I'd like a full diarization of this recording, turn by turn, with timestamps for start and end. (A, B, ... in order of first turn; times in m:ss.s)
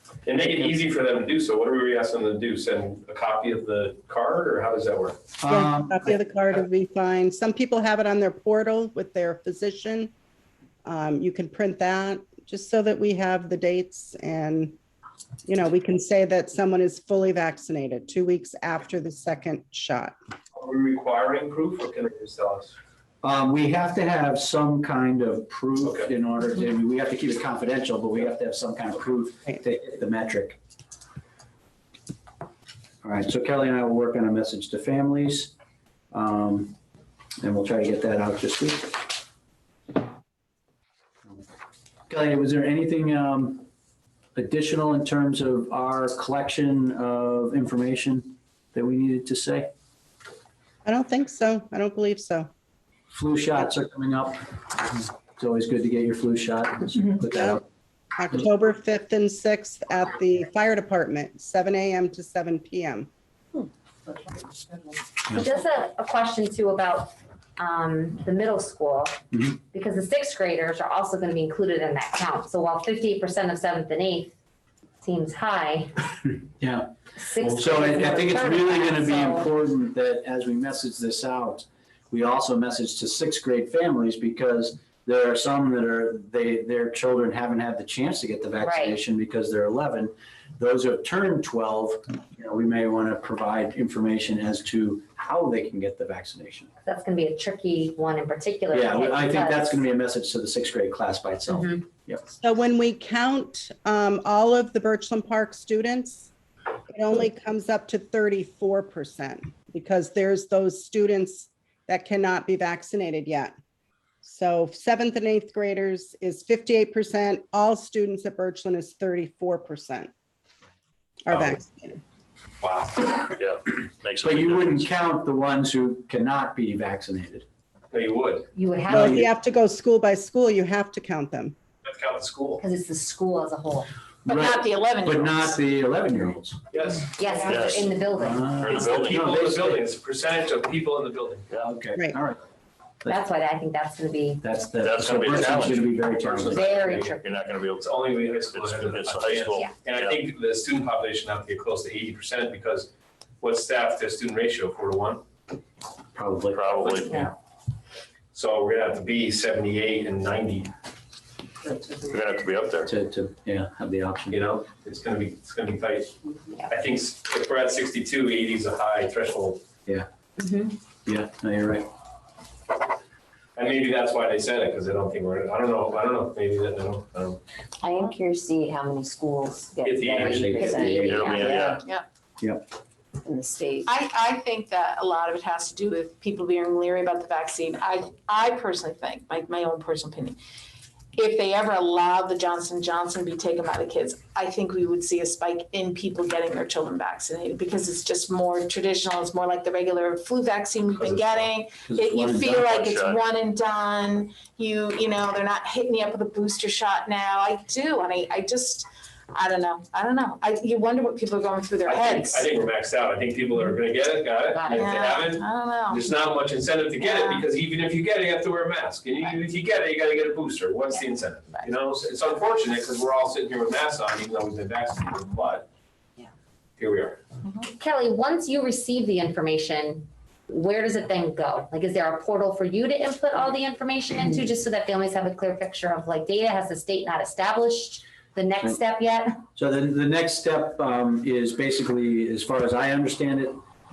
0:00.2-0:05.2 A
0:05.4-0:06.1 B
0:05.5-0:10.1 C
0:10.8-0:14.8 C
0:15.4-0:20.2 C
0:20.5-0:22.7 A
0:23.2-0:30.6 B
0:25.8-0:26.1 A
0:33.0-0:35.5 B
0:36.1-0:36.7 B
0:37.4-0:39.1 B
0:42.1-0:43.6 B
0:44.3-0:49.7 B
0:50.8-0:52.5 C
0:53.1-0:57.6 B
0:57.3-0:57.6 C
0:58.2-1:03.1 C
1:05.3-1:09.2 D
1:09.7-1:14.3 D
1:15.0-1:16.1 D
1:16.6-1:16.9 B
1:17.2-1:19.5 D
1:17.4-1:36.7 B
1:28.6-1:29.0 D
1:36.8-1:39.8 D
1:38.7-1:42.2 B
1:41.5-1:41.8 D
1:42.4-1:46.3 C
1:46.9-1:53.5 C
1:54.2-2:00.1 C
2:01.3-2:02.0 C
2:02.6-2:03.2 A
2:03.4-2:04.9 E
2:04.2-2:07.4 B
2:07.9-2:08.5 A
2:08.5-2:09.2 D
2:08.9-2:09.2 B
2:08.9-2:11.5 C
2:11.8-2:12.6 A
2:12.6-2:13.9 D
2:14.2-2:16.6 B
2:14.2-2:15.6 F
2:16.7-2:17.1 A
2:17.0-2:18.5 D
2:17.4-2:19.3 E
2:18.2-2:19.8 B
2:18.7-2:21.5 A
2:21.6-2:22.4 B
2:23.1-2:24.4 D
2:24.4-2:26.7 B
2:24.8-2:26.1 E
2:25.5-2:27.2 A
2:26.5-2:27.4 D
2:26.6-2:30.2 E
2:27.7-2:32.9 A
2:33.4-2:35.2 A
2:36.1-2:36.8 B
2:36.5-2:37.3 E
2:38.3-2:40.7 A
2:42.0-2:42.9 E
2:42.8-2:44.4 B
2:44.3-2:49.6 A
2:51.0-2:51.9 B
2:53.6-2:57.4 A
2:57.8-3:01.8 G
2:59.8-3:00.9 A
3:00.2-3:01.6 B
3:01.0-3:01.8 E
3:02.4-3:02.6 B
3:03.2-3:03.9 G
3:03.8-3:10.4 F
3:11.2-3:32.2 F
3:20.9-3:21.5 A
3:21.8-3:22.8 B
3:22.5-3:23.2 E
3:31.8-3:45.7 A
3:34.5-3:34.9 D
3:34.7-3:36.0 F
3:37.0-3:37.4 F
3:46.8-3:47.2 A
3:47.8-3:59.4 D
3:59.6-4:03.6 B